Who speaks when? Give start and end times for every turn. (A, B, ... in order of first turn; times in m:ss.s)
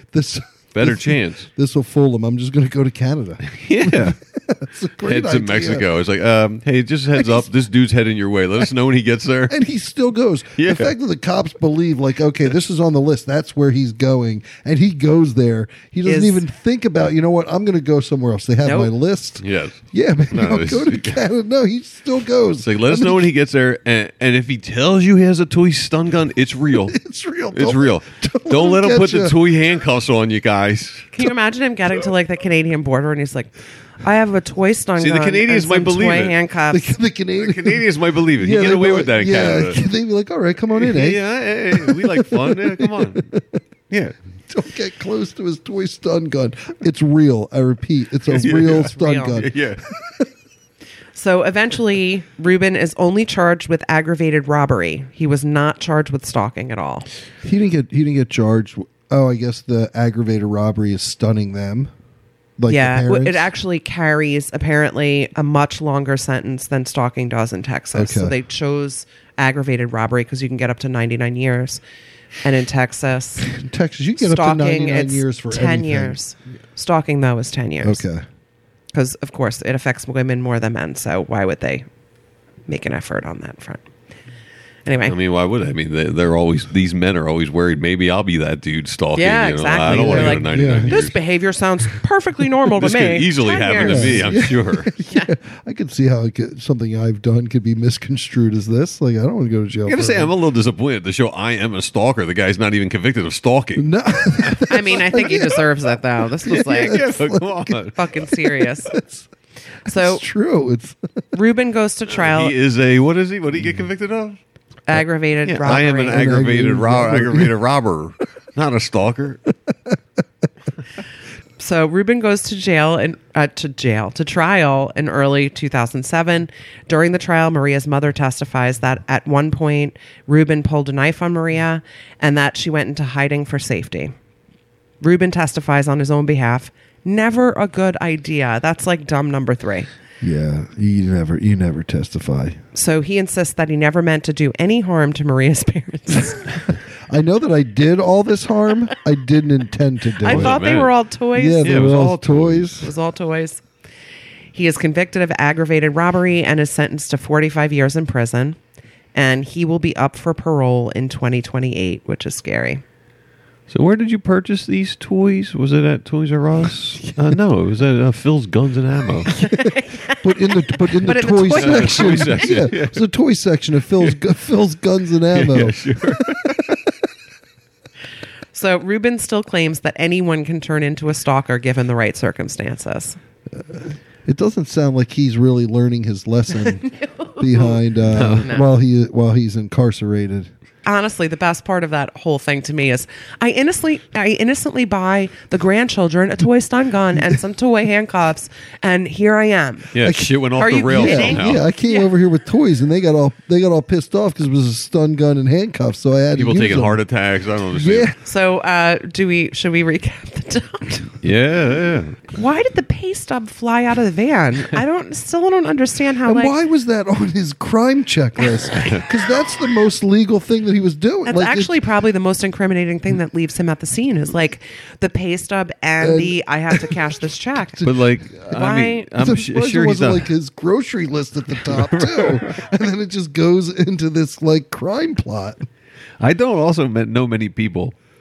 0:00.1-0:05.9 A
0:00.7-0:01.5 B
0:03.5-0:04.2 B
0:05.0-0:09.6 B
0:07.2-0:07.5 A
0:09.5-0:23.3 A
0:10.6-0:10.9 B
0:16.0-0:16.4 C
0:18.6-0:18.9 C
0:19.4-0:19.8 B
0:20.3-0:21.2 B
0:22.6-0:27.0 B
0:26.8-0:29.5 A
0:27.5-0:31.2 B
0:31.1-0:37.0 C
0:35.0-0:36.4 B
0:36.7-0:43.6 A
0:37.4-0:39.8 B
0:40.8-0:43.2 B
0:44.5-0:50.3 A
0:48.3-0:49.8 B
0:48.9-0:49.4 C
0:51.1-0:57.1 C
0:57.4-1:01.9 A
1:02.6-1:03.5 A
1:02.7-1:11.8 C
1:08.0-1:08.4 A
1:12.4-1:13.5 C
1:13.5-1:16.2 A
1:14.2-1:18.0 C
1:17.8-1:18.2 A
1:18.9-1:21.9 C
1:22.7-1:23.8 C
1:24.8-1:25.1 C
1:25.1-1:31.2 B
1:29.2-1:34.3 C
1:29.8-1:31.0 A
1:32.8-1:34.9 B
1:33.8-1:40.3 A
1:39.9-1:44.8 B
1:43.8-1:45.7 A
1:44.7-1:47.2 C
1:46.4-1:47.9 A
1:46.5-1:48.3 B
1:47.9-1:49.0 C
1:48.9-1:49.3 A
1:49.9-1:50.2 C
1:49.9-1:51.2 A
1:51.3-1:52.5 C
1:52.1-1:54.4 B
1:54.9-1:56.2 C
1:55.4-1:59.4 B
1:56.1-1:57.6 A
2:01.6-2:14.1 C
2:15.0-2:19.9 C
2:20.2-2:22.6 A
2:22.8-2:26.6 C
2:26.7-2:30.6 A
2:30.2-2:31.9 C
2:30.2-2:30.9 B
2:31.4-2:32.9 A
2:31.6-2:32.8 B
2:32.8-2:33.6 C
2:34.5-2:38.6 C
2:39.1-2:42.8 C
2:43.7-2:49.3 B
2:49.3-2:52.6 C
2:49.3-2:56.6 A
2:51.5-2:53.0 B
2:55.3-2:56.8 B
2:58.5-3:03.2 C
3:03.5-3:10.5 A
3:06.6-3:07.8 C
3:08.1-3:08.5 B
3:10.8-3:20.0 C
3:19.9-3:21.6 B
3:20.0-3:20.4 A
3:20.5-3:22.1 C
3:20.9-3:27.0 A
3:26.4-3:28.1 B
3:27.7-3:28.2 A
3:28.2-3:31.2 C
3:31.2-3:32.2 B
3:32.3-3:36.6 C
3:36.2-3:41.8 A
3:41.2-3:47.8 C
3:46.0-3:47.0 A
3:47.7-3:48.6 A
3:47.8-3:50.3 B
3:48.5-3:49.1 C
3:49.2-3:55.6 A
3:51.6-3:52.6 B
3:56.2-3:58.0 B